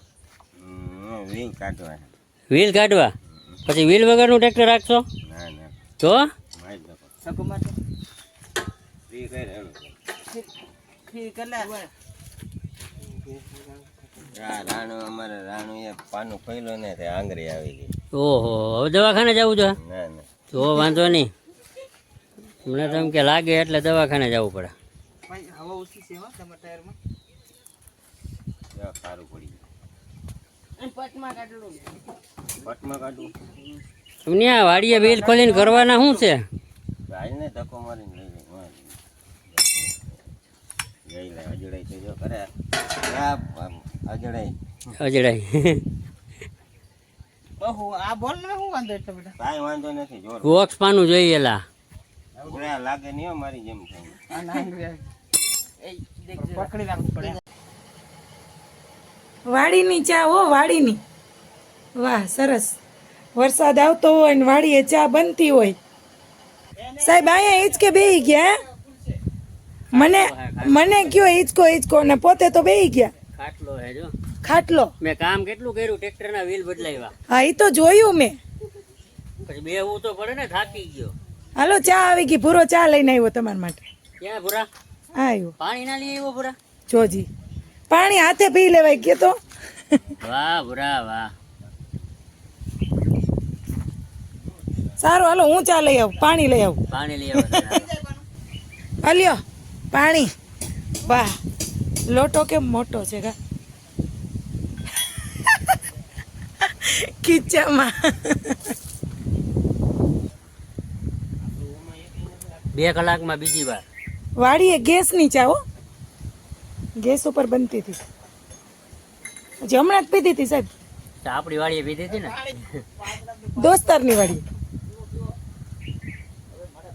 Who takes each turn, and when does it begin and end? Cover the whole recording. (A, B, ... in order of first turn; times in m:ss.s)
0:00.6-0:02.1 A
0:02.5-0:03.1 B
0:03.6-0:05.0 B
0:05.2-0:05.7 A
0:06.0-0:06.3 B
0:06.6-0:07.1 A
0:09.1-0:09.9 A
0:11.1-0:11.7 C
0:14.3-0:17.9 A
0:18.1-0:19.8 B
0:19.8-0:20.2 A
0:20.5-0:21.3 B
0:22.6-0:24.7 B
0:25.4-0:26.9 C
0:28.7-0:29.6 A
0:31.0-0:31.6 C
0:32.6-0:33.3 A
0:34.2-0:36.4 B
0:37.1-0:38.8 A
0:39.6-0:39.9 A
0:41.1-0:44.5 A
0:45.0-0:45.8 B
0:47.6-0:49.3 C
0:49.4-0:50.5 A
0:50.4-0:51.6 B
0:52.4-0:54.3 A
0:54.4-0:54.8 C
0:56.4-0:57.2 C
0:59.5-1:01.0 D
1:02.0-1:02.8 D
1:03.4-1:05.8 D
1:07.0-1:08.5 D
1:09.9-1:11.2 B
1:09.9-1:13.1 D
1:13.3-1:14.1 B
1:14.4-1:14.9 D
1:15.0-1:17.1 B
1:17.3-1:18.4 D
1:19.4-1:21.1 B
1:21.6-1:23.8 D
1:24.2-1:24.7 B
1:25.2-1:25.5 D
1:25.6-1:26.6 B
1:26.9-1:27.3 D
1:27.9-1:29.4 D
1:30.2-1:31.3 B
1:35.0-1:36.8 D
1:36.9-1:38.0 B
1:37.4-1:37.7 D
1:39.0-1:39.4 D
1:39.9-1:40.3 D
1:41.0-1:41.4 D
1:42.1-1:43.4 D
1:45.3-1:45.8 D
1:46.6-1:48.7 D
1:52.7-1:53.8 B
1:54.4-1:55.6 D
1:57.0-1:58.0 D
1:59.6-2:00.7 D
2:01.2-2:02.6 B
2:03.4-2:04.4 D